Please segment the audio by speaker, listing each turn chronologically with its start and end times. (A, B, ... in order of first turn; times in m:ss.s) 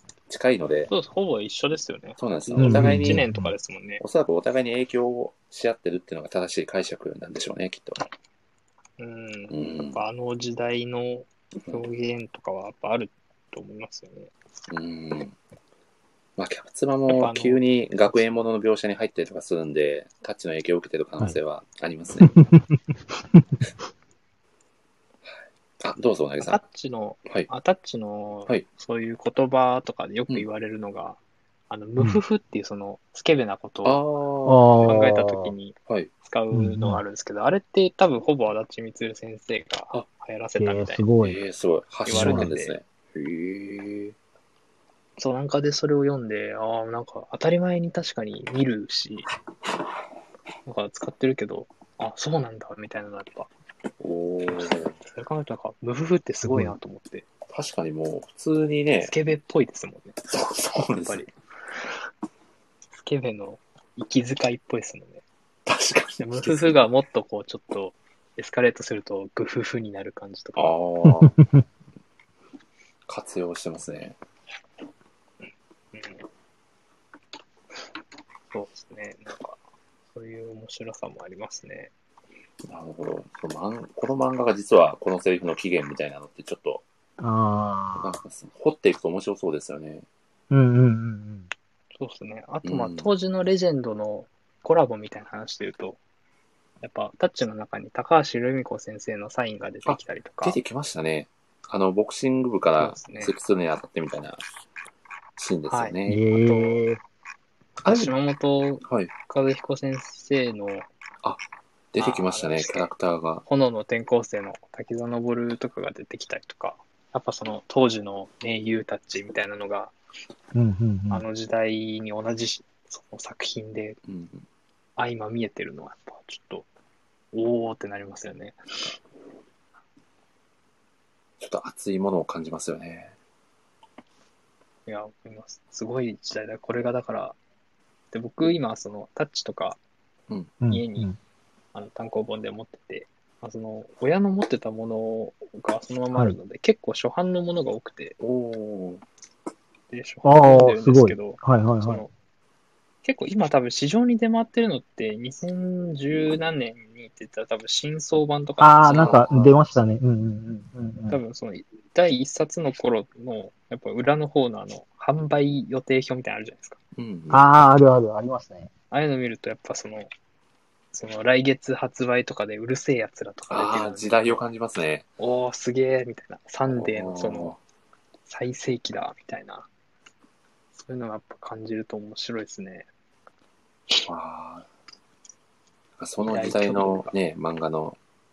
0:00.3-0:00.9 A
0:00.9-0:04.0 B
0:02.2-0:03.2 A
0:02.6-0:03.5 C
0:04.0-0:08.0 A
0:09.0-0:14.3 B
0:09.5-0:10.0 A
0:14.7-0:15.4 A
0:16.4-0:22.3 A
0:17.1-0:18.2 B
0:22.2-0:23.6 C
0:25.2-0:26.6 A
0:26.4-0:31.2 B
0:31.7-0:34.0 B
0:33.8-0:34.9 A
0:34.4-0:35.5 C
0:34.8-0:41.0 B
0:36.5-0:37.0 C
0:40.6-0:41.4 C
0:41.2-0:44.2 A
0:42.0-0:42.8 B
0:42.1-0:42.5 C
0:45.2-0:49.3 B
0:50.6-0:53.5 B
0:54.0-0:55.0 A
0:55.0-0:57.2 B
0:56.4-0:56.7 C
0:57.5-0:59.1 A
0:59.0-1:00.2 B
1:00.2-1:01.3 A
1:00.8-1:02.0 B
1:03.0-1:05.2 B
1:05.6-1:06.8 A
1:06.2-1:10.8 B
1:10.6-1:11.4 A
1:11.0-1:11.6 C
1:13.1-1:14.2 A
1:15.9-1:16.2 B
1:18.5-1:19.6 B
1:20.1-1:21.9 B
1:22.6-1:26.8 A
1:27.2-1:28.2 C
1:28.0-1:30.0 A
1:30.5-1:31.5 C
1:31.9-1:36.0 B
1:32.6-1:33.1 A
1:36.8-1:40.6 B
1:39.8-1:44.4 A
1:42.8-1:43.3 B
1:45.4-1:46.2 A
1:45.7-1:46.8 B
1:46.0-1:47.0 C
1:47.8-1:50.9 B
1:47.8-1:48.1 A
1:48.8-1:49.1 A
1:51.2-1:53.4 A
1:52.0-1:52.9 B
1:53.4-1:59.9 B
2:00.5-2:01.2 C
2:01.1-2:04.0 B
2:04.0-2:04.4 A
2:05.0-2:06.6 B
2:07.3-2:08.9 B
2:11.4-2:13.1 A
2:14.8-2:17.4 B
2:18.1-2:19.8 B
2:20.6-2:21.2 C
2:20.7-2:21.1 B
2:21.7-2:28.2 B
2:28.2-2:29.0 A
2:29.9-2:32.1 B
2:30.2-2:32.0 C
2:33.0-2:39.6 B
2:38.6-2:41.2 C
2:38.9-2:39.5 A
2:41.1-2:46.8 B
2:46.9-2:47.4 A
2:47.3-2:48.7 C
2:48.9-2:50.1 B
2:50.9-2:54.4 B
2:53.5-2:55.1 A
2:55.2-2:57.6 B
2:56.7-2:57.6 A
2:58.3-2:59.7 B
3:00.8-3:02.9 B
3:04.0-3:04.6 A
3:06.0-3:08.0 A
3:06.2-3:07.2 B